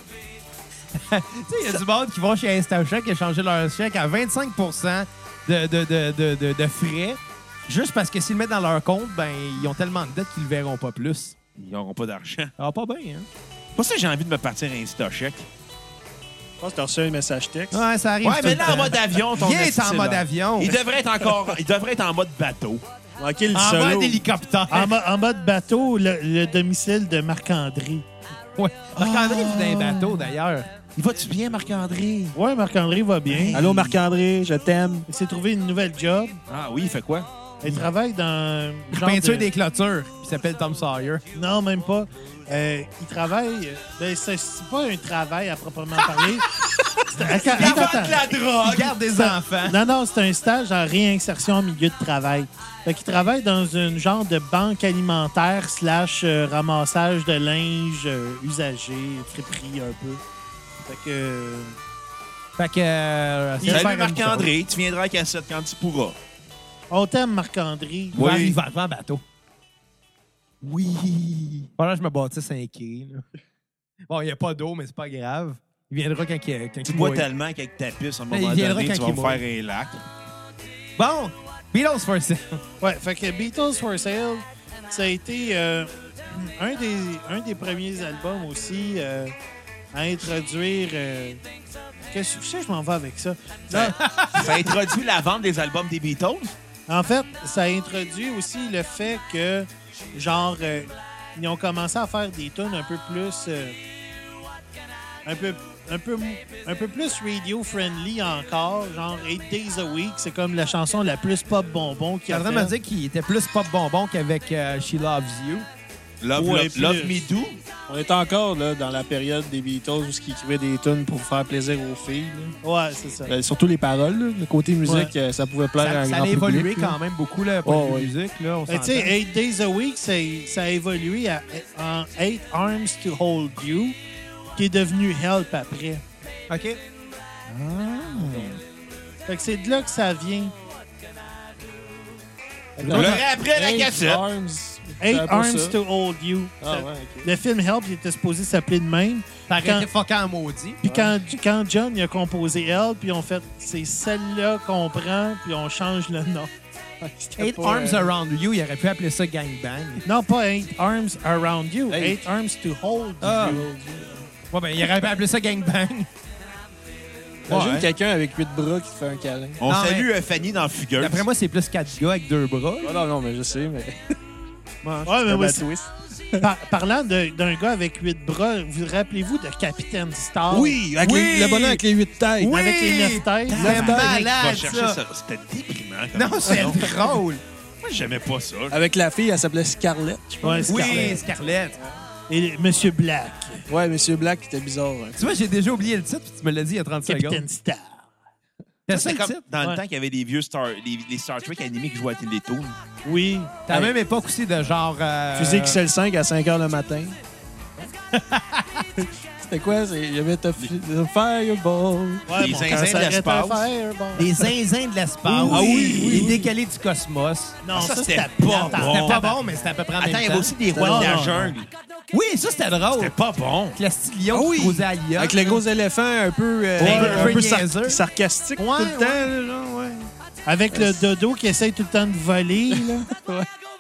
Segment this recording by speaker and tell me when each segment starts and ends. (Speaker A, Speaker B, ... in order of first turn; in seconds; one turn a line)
Speaker A: 0.9-11.3
Speaker B: 11.6-12.5
Speaker A: 12.6-13.3
Speaker B: 13.8-15.5
Speaker C: 16.6-17.8
Speaker A: 17.7-20.7
Speaker B: 18.2-22.8
Speaker C: 23.2-24.2
Speaker A: 23.5-24.9
Speaker D: 24.7-28.1
Speaker A: 28.6-30.7
Speaker B: 28.9-30.3
Speaker B: 30.9-32.4
Speaker D: 32.3-33.6
Speaker B: 33.3-34.0
Speaker C: 33.5-35.1
Speaker D: 35.1-36.4
Speaker B: 36.5-37.9
Speaker D: 37.6-39.5
Speaker A: 38.9-41.2
Speaker D: 41.3-46.5
Speaker D: 47.1-48.3
Speaker B: 47.3-49.0
Speaker A: 47.4-49.8
Speaker D: 49.1-60.2
Speaker D: 60.8-61.8
Speaker A: 62.6-64.5
Speaker D: 63.6-63.9
Speaker B: 63.7-66.2
Speaker D: 66.9-68.2
Speaker B: 68.1-68.6
Speaker A: 68.1-69.2
Speaker B: 70.6-71.7
Speaker A: 71.8-73.2
Speaker A: 74.1-77.3
Speaker B: 76.8-80.0
Speaker A: 78.3-79.4
Speaker A: 81.0-82.6
Speaker D: 82.8-89.3
Speaker D: 89.9-91.4
Speaker D: 92.1-94.0
Speaker B: 93.7-96.5
Speaker A: 93.9-94.7
Speaker D: 96.9-103.8
Speaker D: 105.2-112.7
Speaker A: 112.3-115.7
Speaker B: 116.2-117.6
Speaker D: 116.3-117.2
Speaker C: 117.9-122.6
Speaker D: 122.6-123.3
Speaker C: 123.3-127.0
Speaker D: 124.8-125.1
Speaker A: 125.8-129.1
Speaker C: 127.7-128.1
Speaker D: 128.7-134.0
Speaker D: 134.5-136.0
Speaker A: 136.5-136.8
Speaker B: 137.5-138.5
Speaker D: 139.3-140.5
Speaker C: 142.8-145.8
Speaker A: 142.8-143.2
Speaker B: 142.8-144.2
Speaker D: 145.0-149.9
Speaker C: 146.6-147.3
Speaker A: 149.5-150.8
Speaker C: 150.8-151.2
Speaker D: 150.8-156.5
Speaker C: 157.0-158.1
Speaker A: 157.4-160.0
Speaker D: 160.0-164.0
Speaker C: 161.9-162.2
Speaker A: 163.2-163.6
Speaker C: 163.3-164.2
Speaker A: 164.5-166.1
Speaker B: 167.5-167.9
Speaker C: 167.5-169.6
Speaker B: 169.6-171.2
Speaker A: 169.7-170.1
Speaker A: 171.0-173.0
Speaker C: 172.8-174.2
Speaker C: 174.8-176.4
Speaker D: 175.0-175.7
Speaker D: 176.4-180.8
Speaker C: 180.5-182.6
Speaker A: 181.0-181.8
Speaker A: 182.4-185.0
Speaker D: 182.4-184.2
Speaker B: 183.5-186.8
Speaker C: 183.5-184.1
Speaker A: 186.2-187.4
Speaker C: 186.5-187.0
Speaker B: 187.8-188.8
Speaker C: 188.7-192.0
Speaker D: 190.4-191.2
Speaker A: 190.7-191.8
Speaker D: 192.3-193.6
Speaker C: 193.7-195.3
Speaker A: 195.2-197.4
Speaker D: 197.1-198.1
Speaker A: 198.9-199.4
Speaker B: 198.9-202.8
Speaker D: 203.0-203.6
Speaker A: 203.7-205.8
Speaker C: 203.7-203.9
Speaker C: 205.3-207.2
Speaker A: 208.1-208.8
Speaker C: 209.0-213.2
Speaker D: 212.3-214.4
Speaker B: 212.3-213.7
Speaker A: 214.2-217.6
Speaker D: 215.3-216.5
Speaker C: 215.5-216.4
Speaker D: 217.6-219.4
Speaker B: 217.7-219.3
Speaker A: 218.7-220.5
Speaker B: 220.0-221.7
Speaker C: 220.7-221.4
Speaker D: 220.8-221.5
Speaker A: 222.1-223.1
Speaker B: 222.9-223.8
Speaker A: 223.8-225.6
Speaker C: 224.3-229.3
Speaker A: 226.8-228.0
Speaker D: 226.8-227.4
Speaker A: 228.6-230.1
Speaker D: 230.5-233.1
Speaker C: 230.7-231.0
Speaker C: 232.7-233.5